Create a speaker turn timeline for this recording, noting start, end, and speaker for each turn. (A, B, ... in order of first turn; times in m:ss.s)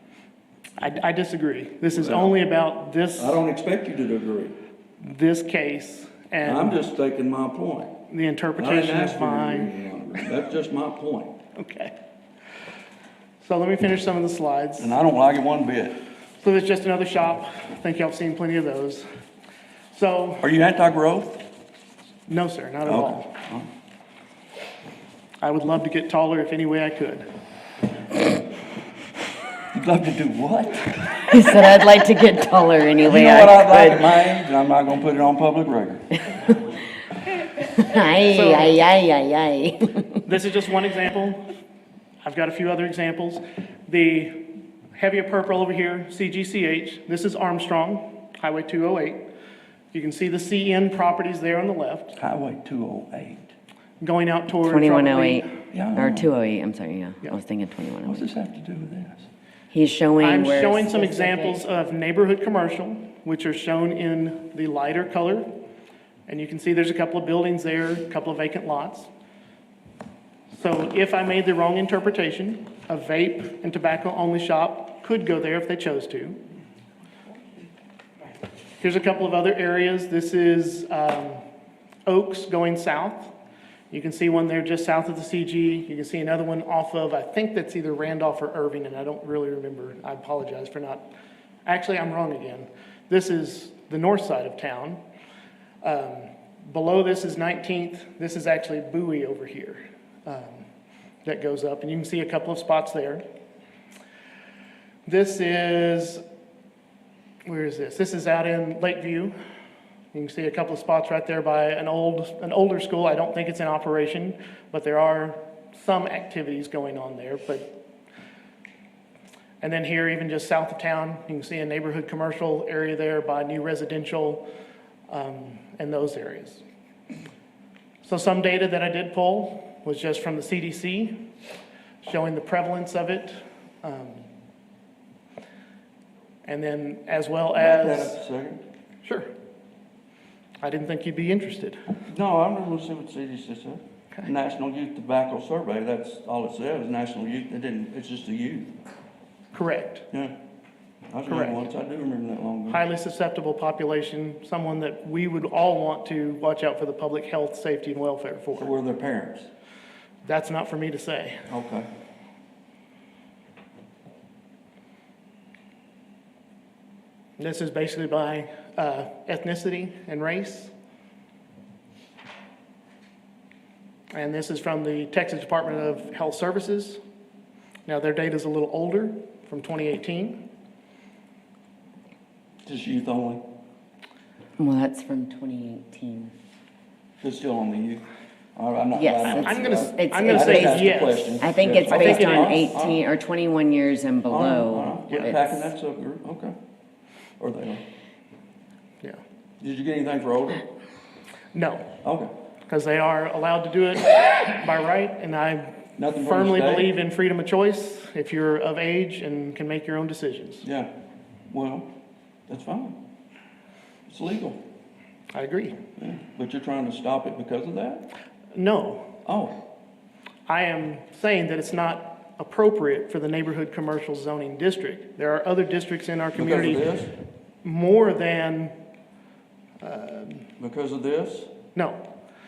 0:00.8-0:03.4 A
0:02.0-0:02.4 B
0:03.2-0:04.6 B
0:05.0-0:06.8 A
0:06.4-0:07.9 B
0:08.1-0:09.7 A
0:08.6-0:11.4 B
0:11.6-0:11.9 A
0:13.4-0:14.9 A
0:14.8-0:16.0 B
0:16.4-0:19.1 A
0:19.9-0:20.4 A
0:20.4-0:21.4 B
0:22.3-0:23.3 A
0:22.8-0:23.7 B
0:25.4-0:27.3 A
0:29.7-0:31.3 B
0:31.3-0:34.2 C
0:33.0-0:36.1 B
0:37.6-0:40.2 C
0:38.3-0:38.8 A
0:40.2-0:41.4 A
0:42.2-0:49.3 A
0:49.9-0:52.2 A
0:52.2-0:53.5 B
0:54.0-0:55.5 A
0:54.6-0:58.2 C
0:55.7-0:56.3 B
0:58.1-0:59.3 B
0:59.7-1:01.6 C
1:00.2-1:05.5 A
1:06.3-1:09.1 A
1:10.5-1:16.4 A
1:18.8-1:21.4 A
1:22.1-1:23.3 A
1:23.9-1:31.1 A
1:31.7-1:35.0 A
1:35.8-1:40.7 A
1:41.2-1:43.2 A
1:45.1-1:46.2 A
1:47.4-1:49.4 A
1:50.1-1:57.7 A
1:59.6-2:04.4 A
2:05.1-2:06.6 A
2:08.0-2:11.2 A
2:12.0-2:14.3 A
2:16.5-2:18.2 A
2:17.6-2:18.6 B
2:19.0-2:19.3 A
2:20.6-2:21.8 A
2:22.1-2:28.7 B
2:29.5-2:30.1 A
2:31.1-2:32.8 B
2:31.3-2:31.6 A
2:32.7-2:38.7 A
2:38.6-2:39.5 B
2:40.2-2:41.4 A
2:41.5-2:41.9 B
2:47.4-2:50.7 A
2:54.1-2:57.0 A
2:57.9-3:00.5 A
3:02.7-3:03.4 B
3:04.6-3:06.3 C
3:07.2-3:08.0 B
3:08.6-3:13.0 B
3:08.9-3:15.7 C
3:09.2-3:12.6 A
3:14.3-3:16.6 B
3:17.4-3:17.8 B
3:19.6-3:20.6 B
3:21.5-3:21.9 A
3:22.0-3:22.3 B
3:22.7-3:30.7 A
3:26.0-3:26.9 B
3:30.6-3:30.9 B
3:31.5-3:31.9 B
3:32.5-3:33.0 B
3:34.1-3:34.6 B
3:35.3-3:35.8 A
3:36.0-3:38.0 B
3:38.6-3:39.1 A
3:39.2-3:39.6 B
3:40.5-3:47.0 A
3:46.3-3:47.1 B
3:47.6-3:48.8 A
3:49.8-3:50.5 A
3:50.6-3:51.5 B
3:51.8-3:52.0 A